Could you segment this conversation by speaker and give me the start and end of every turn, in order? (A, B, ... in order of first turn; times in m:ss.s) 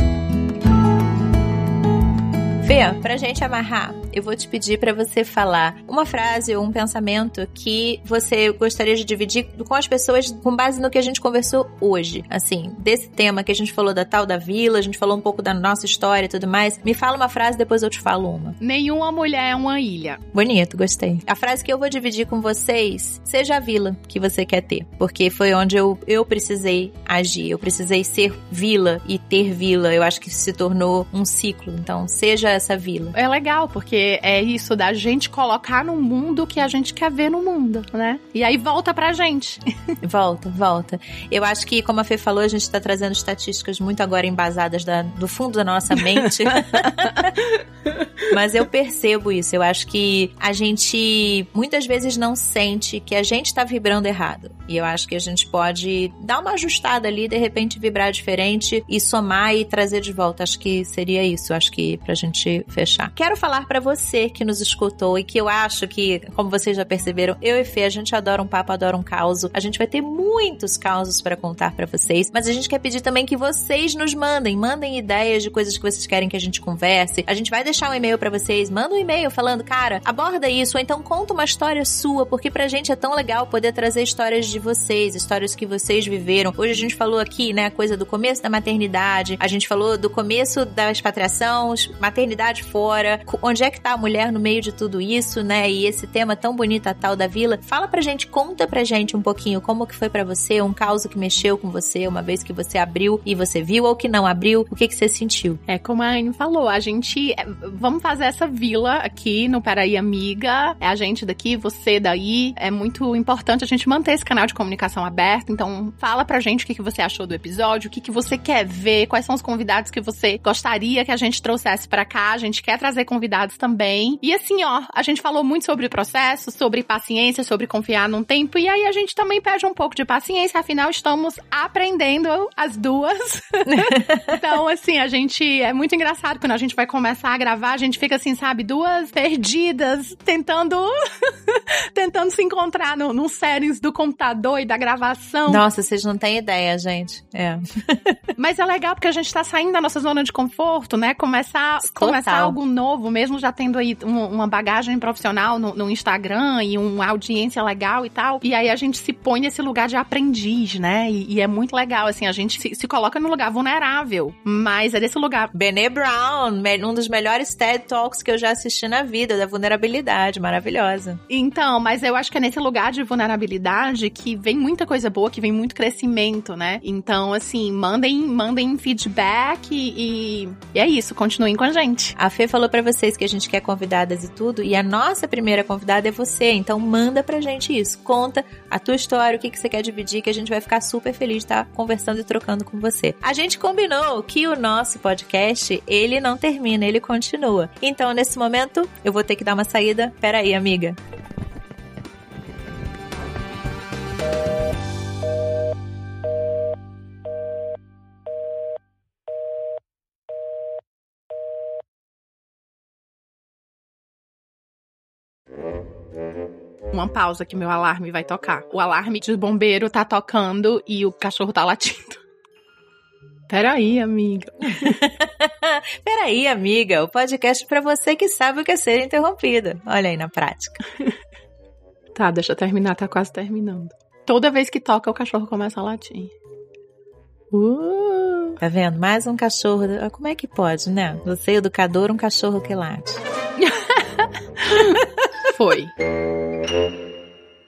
0:02.6-0:18.6 A
0:18.6-0:20.2 B
0:20.3-0:33.1 A
0:33.1-0:39.6 B
0:40.0-0:47.4 A
0:46.4-0:48.1 B
0:48.3-1:45.6 A
1:45.7-2:25.6 B
2:13.7-2:14.3 A
2:25.5-2:28.2 A
2:28.4-2:45.5 B
2:31.8-2:32.6 A
2:45.5-2:51.2 A
2:51.3-3:02.1 B
3:02.2-3:21.0 A
3:36.9-3:42.2 B
3:43.5-3:45.0 B
3:44.7-3:50.8 A
3:52.1-3:56.3 B
3:57.5-3:58.6 B
3:58.6-4:03.2 A
4:03.6-4:05.9 B